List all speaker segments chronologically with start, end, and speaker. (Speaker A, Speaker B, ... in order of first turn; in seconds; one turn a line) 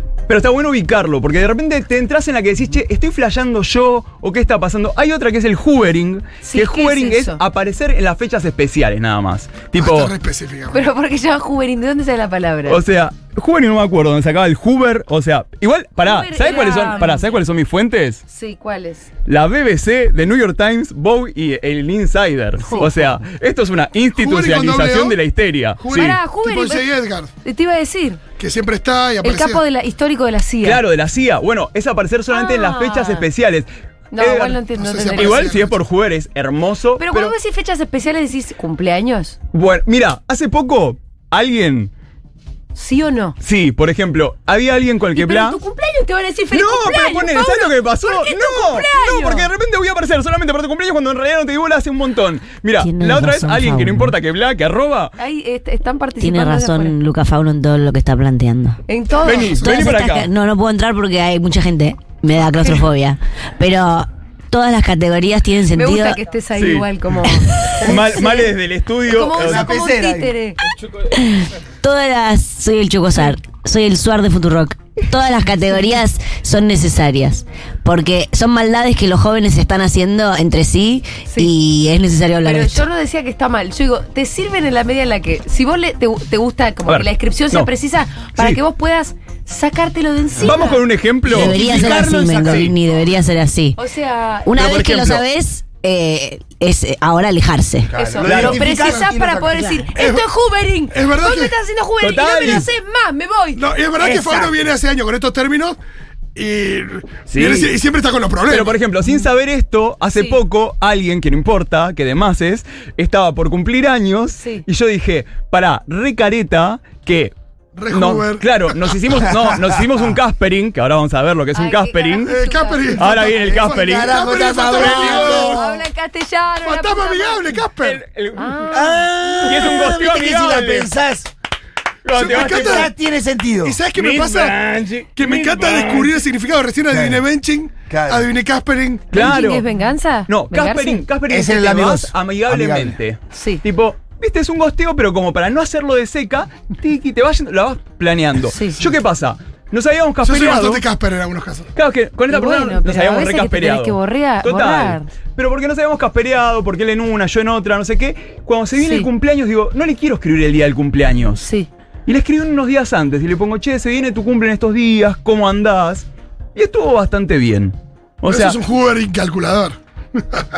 Speaker A: 0.3-10.1
Speaker B: 6.4-7.4
Speaker C: 9.7-10.8
Speaker B: 10.7-12.8
Speaker A: 12.7-18.2
Speaker B: 16.0-17.4
Speaker B: 18.3-19.1
Speaker A: 19.2-26.2
Speaker B: 22.6-22.9
Speaker C: 24.1-25.2
Speaker C: 25.8-27.3
Speaker B: 26.0-26.9
Speaker B: 27.4-28.2
Speaker C: 28.4-29.6
Speaker B: 29.2-30.8
Speaker A: 30.6-34.6
Speaker B: 32.3-33.2
Speaker B: 34.1-35.5
Speaker C: 34.7-35.8
Speaker A: 35.1-37.3
Speaker B: 37.0-39.4
Speaker A: 39.5-41.9
Speaker B: 42.7-43.4
Speaker A: 43.4-45.6
Speaker B: 45.1-49.5
Speaker A: 46.5-55.1
Speaker D: 52.8-54.1
Speaker B: 55.2-57.0
Speaker D: 56.2-58.8
Speaker B: 58.9-59.6
Speaker A: 59.2-60.3
Speaker D: 59.5-66.2
Speaker B: 65.7-68.5
Speaker A: 66.5-66.9
Speaker A: 67.8-69.7
Speaker B: 69.1-70.6
Speaker E: 69.3-70.3
Speaker D: 71.2-82.8
Speaker B: 82.4-90.8
Speaker A: 86.8-87.7
Speaker A: 90.4-92.7
Speaker E: 91.2-93.0
Speaker D: 91.3-93.8
Speaker B: 93.8-94.6
Speaker D: 94.5-97.9
Speaker A: 94.6-95.2
Speaker E: 97.9-99.7
Speaker B: 97.9-103.6
Speaker A: 98.2-98.6
Speaker C: 98.3-99.0
Speaker D: 99.5-99.9
Speaker C: 99.9-100.2
Speaker C: 100.9-101.5
Speaker A: 102.0-102.7
Speaker C: 103.5-105.8
Speaker E: 104.0-104.7
Speaker C: 106.3-108.8
Speaker A: 107.3-107.7
Speaker A: 108.5-117.3
Speaker B: 114.4-114.6
Speaker C: 117.8-119.0
Speaker A: 117.9-122.3
Speaker B: 121.5-123.2
Speaker C: 122.2-125.6
Speaker A: 123.0-125.6
Speaker E: 123.4-125.6
Speaker B: 124.8-127.5
Speaker C: 126.6-128.0
Speaker A: 127.8-130.9
Speaker B: 128.4-129.0
Speaker E: 128.7-131.3
Speaker A: 132.0-132.9
Speaker C: 132.1-132.9
Speaker E: 132.2-133.8
Speaker C: 133.6-134.6
Speaker A: 133.9-136.2
Speaker C: 135.2-139.1
Speaker E: 136.9-137.2
Speaker E: 137.9-138.3
Speaker A: 139.1-139.7
Speaker B: 139.1-141.0
Speaker A: 140.2-150.8
Speaker E: 141.3-143.0
Speaker B: 143.3-143.6
Speaker B: 148.5-148.8
Speaker C: 150.2-151.7
Speaker A: 151.7-161.4
Speaker B: 152.3-155.1
Speaker B: 158.8-159.1
Speaker B: 161.3-161.7
Speaker A: 162.1-168.6
Speaker C: 168.3-169.8